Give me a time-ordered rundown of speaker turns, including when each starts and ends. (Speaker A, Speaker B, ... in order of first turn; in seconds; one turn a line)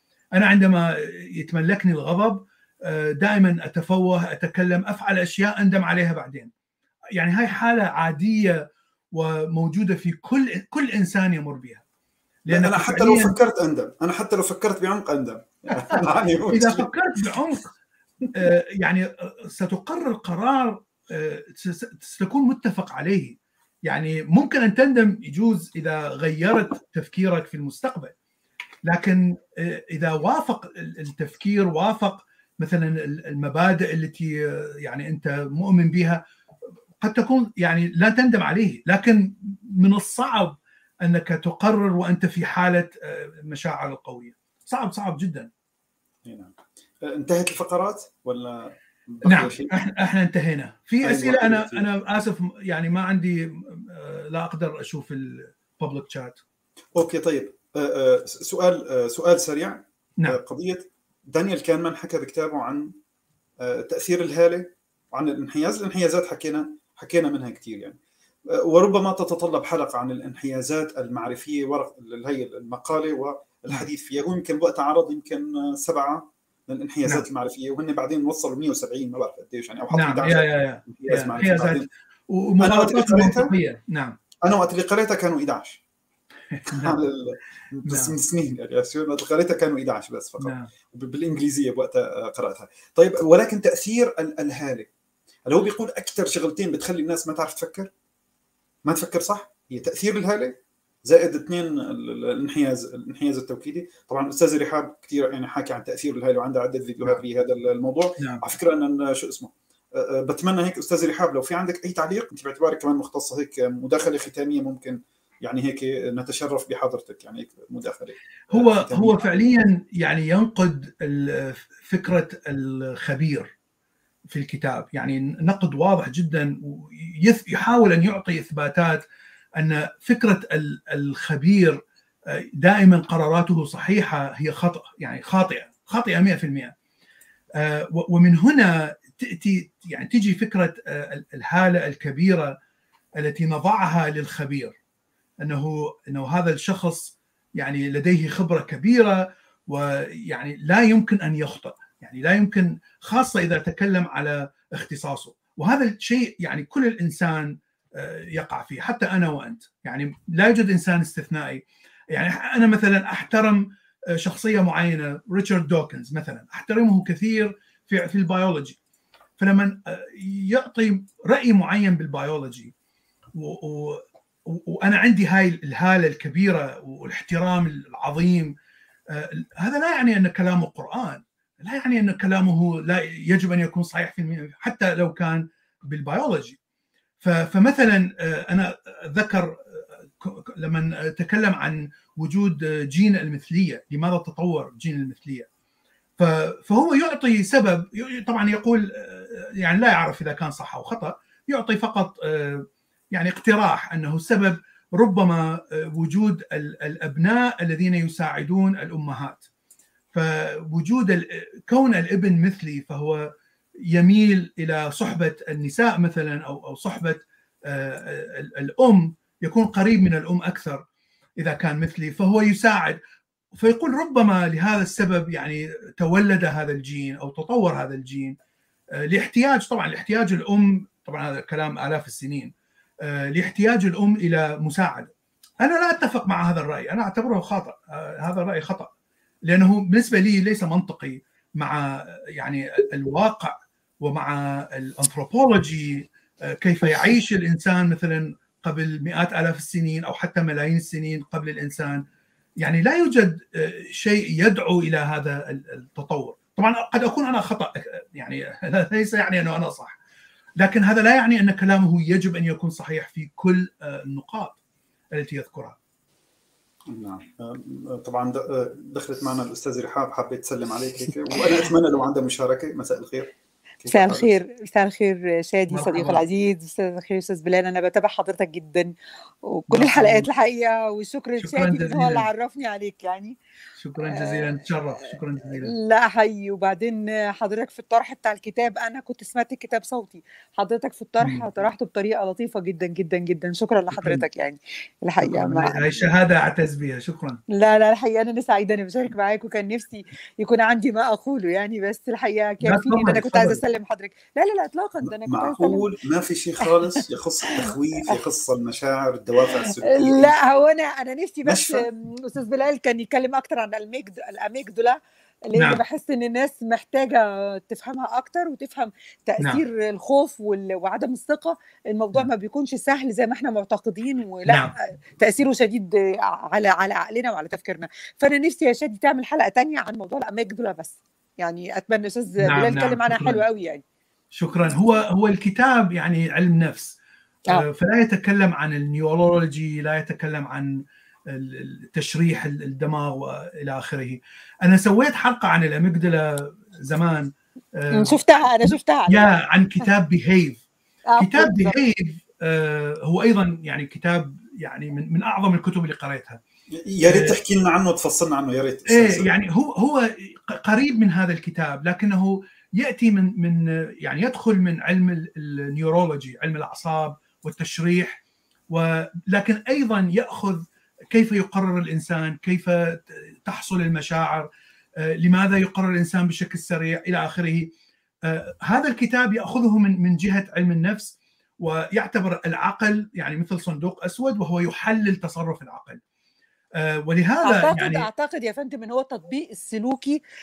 Speaker A: 0.3-6.5
Speaker A: 7.2-11.8
Speaker A: 12.5-13.4
Speaker B: 12.5-16.9
Speaker A: 15.8-17.7
Speaker A: 18.3-28.1
Speaker A: 28.9-36.2
Speaker A: 37.0-45.5
Speaker B: 46.2-49.8
Speaker A: 49.2-56.4
Speaker B: 51.0-51.9
Speaker B: 56.9-62.9
Speaker B: 63.6-68.0
Speaker B: 68.5-81.9
Speaker A: 79.9-84.2
Speaker B: 82.6-83.5
Speaker B: 84.4-85.8
Speaker A: 86.5-87.0
Speaker B: 86.7-94.9
Speaker A: 87.8-88.1
Speaker A: 90.4-90.7
Speaker B: 95.5-97.9
Speaker B: 98.8-119.2
Speaker A: 118.5-123.5
Speaker A: 124.3-129.1
Speaker A: 129.6-136.7
Speaker A: 137.6-142.6
Speaker A: 143.2-144.8
Speaker A: 145.4-168.8
Speaker A: 169.4-172.7
Speaker A: 173.3-178.5
Speaker A: 179.1-186.6
Speaker A: 187.2-195.5
Speaker A: 196.2-209.4
Speaker A: 210.1-213.3
Speaker A: 213.9-220.8
Speaker A: 221.4-223.0
Speaker A: 223.5-228.4
Speaker A: 229.0-232.5
Speaker A: 233.0-238.9
Speaker A: 239.4-252.0
Speaker A: 252.6-260.0
Speaker A: 260.6-264.6
Speaker A: 265.1-265.8
Speaker B: 266.9-273.3
Speaker B: 273.8-274.3
Speaker C: 273.9-283.4
Speaker A: 275.7-276.2
Speaker A: 279.7-280.3
Speaker A: 281.4-282.3
Speaker A: 283.8-285.7
Speaker C: 284.0-284.5
Speaker C: 285.6-296.1
Speaker A: 291.2-291.5
Speaker A: 293.9-294.2
Speaker A: 295.2-297.4
Speaker C: 297.5-305.8
Speaker A: 302.6-303.6
Speaker B: 305.0-310.4
Speaker C: 306.6-308.2
Speaker C: 309.9-333.8
Speaker B: 311.4-311.8
Speaker A: 315.5-315.8
Speaker A: 324.5-324.7
Speaker A: 332.4-333.4
Speaker A: 334.3-337.0
Speaker A: 337.5-350.6
Speaker C: 347.9-349.3
Speaker C: 351.1-351.8
Speaker A: 351.2-356.4
Speaker B: 356.7-359.3
Speaker A: 357.0-357.4
Speaker A: 358.9-374.5
Speaker A: 375.0-377.7
Speaker A: 378.2-386.0
Speaker A: 386.8-388.1
Speaker C: 387.4-390.2